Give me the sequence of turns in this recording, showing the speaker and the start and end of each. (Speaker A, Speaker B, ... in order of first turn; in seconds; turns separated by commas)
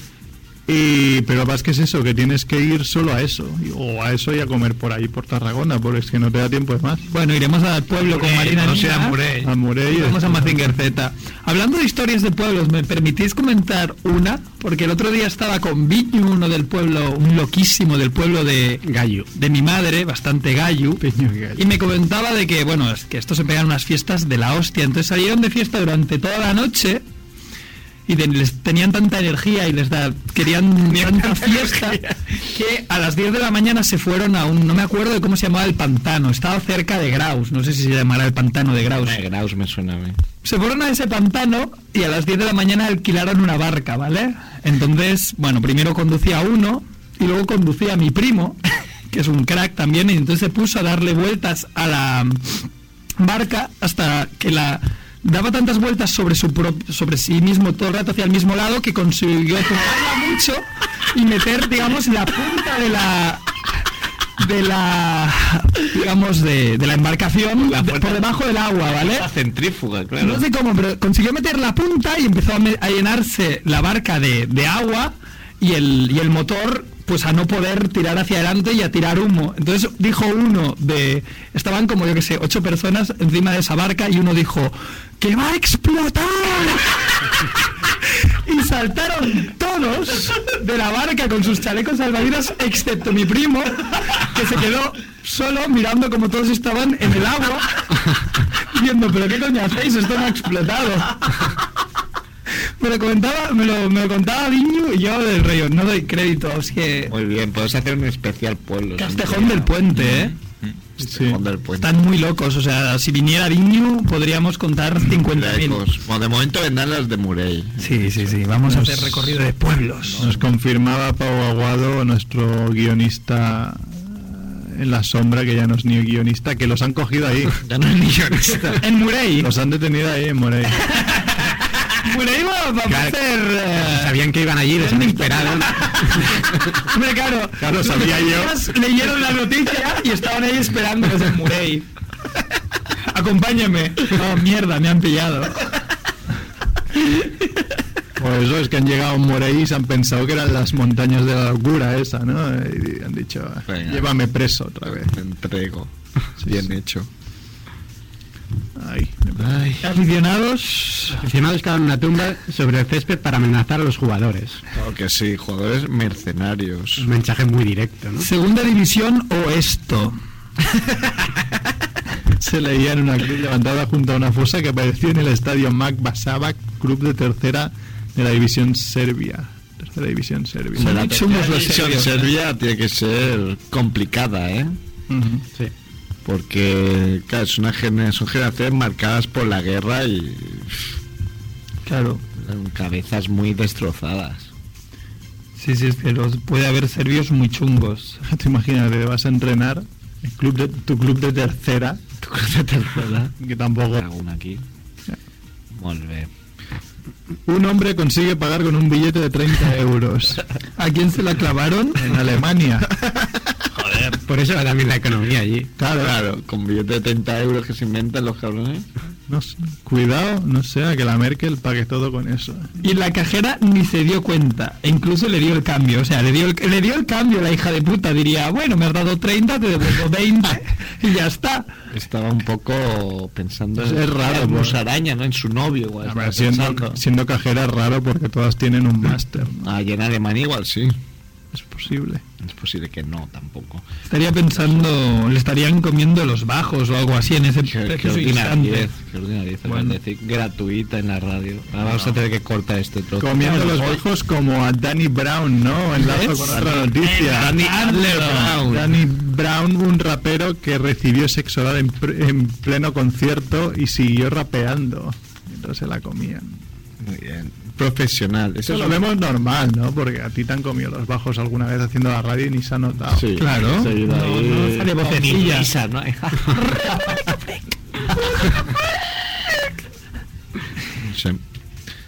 Speaker A: 0.7-7.1, Speaker B: 7.1-9.2, Speaker C: 8.0-9.5, Speaker A: 9.4-10.6, Speaker B: 9.9-21.0, Speaker D: 18.8-19.3, Speaker A: 21.0-21.7, Speaker B: 21.6-27.0, Speaker B: 28.1-39.2, Speaker C: 30.9-32.2, Speaker C: 38.9-40.2, Speaker B: 40.4-52.6, Speaker B: 53.2-63.5, Speaker B: 64.4-69.3, Speaker C: 67.6-68.3, Speaker C: 69.0-70.4, Speaker B: 70.2-87.3, Speaker B: 88.1-98.1, Speaker B: 98.7-101.4, Speaker B: 102.8-107.1, Speaker C: 107.1-109.7, Speaker B: 109.0-110.3, Speaker A: 111.0-111.4, Speaker C: 111.0-111.9, Speaker B: 111.8-115.8, Speaker C: 115.2-118.3, Speaker B: 117.8-120.3, Speaker A: 118.7-119.3, Speaker A: 120.2-127.6, Speaker C: 127.6-128.8, Speaker B: 128.8-129.5, Speaker A: 129.4-130.9, Speaker B: 130.9-134.2, Speaker D: 132.9-133.2, Speaker D: 133.8-136.5, Speaker B: 134.7-141.9, Speaker A: 137.6-138.6, Speaker B: 143.1-145.8, Speaker B: 147.0-147.3, Speaker A: 148.2-155.1, Speaker C: 153.7-154.1, Speaker C: 154.9-157.1, Speaker A: 156.4-156.7, Speaker A: 158.8-159.5, Speaker C: 159.3-159.9, Speaker B: 159.8-161.2, Speaker D: 161.1-164.6, Speaker C: 164.7-167.1, Speaker D: 167.0-168.3, Speaker B: 168.2-170.2, Speaker A: 172.3-181.0, Speaker B: 180.8-182.3, Speaker C: 180.8-184.8, Speaker A: 185.1-185.4, Speaker C: 186.2-191.0, Speaker B: 191.8-192.2, Speaker C: 192.4-194.5, Speaker B: 195.6-198.2, Speaker A: 198.2-202.0, Speaker C: 202.2-203.3, Speaker A: 203.4-204.0, Speaker C: 203.9-204.6, Speaker C: 205.7-206.3, Speaker A: 207.4-210.4, Speaker B: 210.8-212.1, Speaker A: 212.0-213.1, Speaker D: 213.8-215.7, Speaker A: 215.8-216.1, Speaker C: 215.9-218.8, Speaker A: 219.3-222.7, Speaker B: 222.8-231.7, Speaker C: 231.9-237.0, Speaker A: 233.8-234.8, Speaker A: 236.0-239.7, Speaker C: 239.6-240.9, Speaker A: 241.5-242.2, Speaker C: 242.4-243.8, Speaker B: 244.1-248.9, Speaker C: 244.5-244.8, Speaker C: 247.6-254.0, Speaker B: 249.7-249.9, Speaker A: 253.2-257.6, Speaker B: 256.0-258.6, Speaker C: 257.2-259.0, Speaker A: 258.6-266.6, Speaker C: 267.0-269.0, Speaker A: 268.7-273.4, Speaker C: 273.1-276.9, Speaker B: 273.4-275.7, Speaker B: 276.5-277.4, Speaker C: 280.9-281.4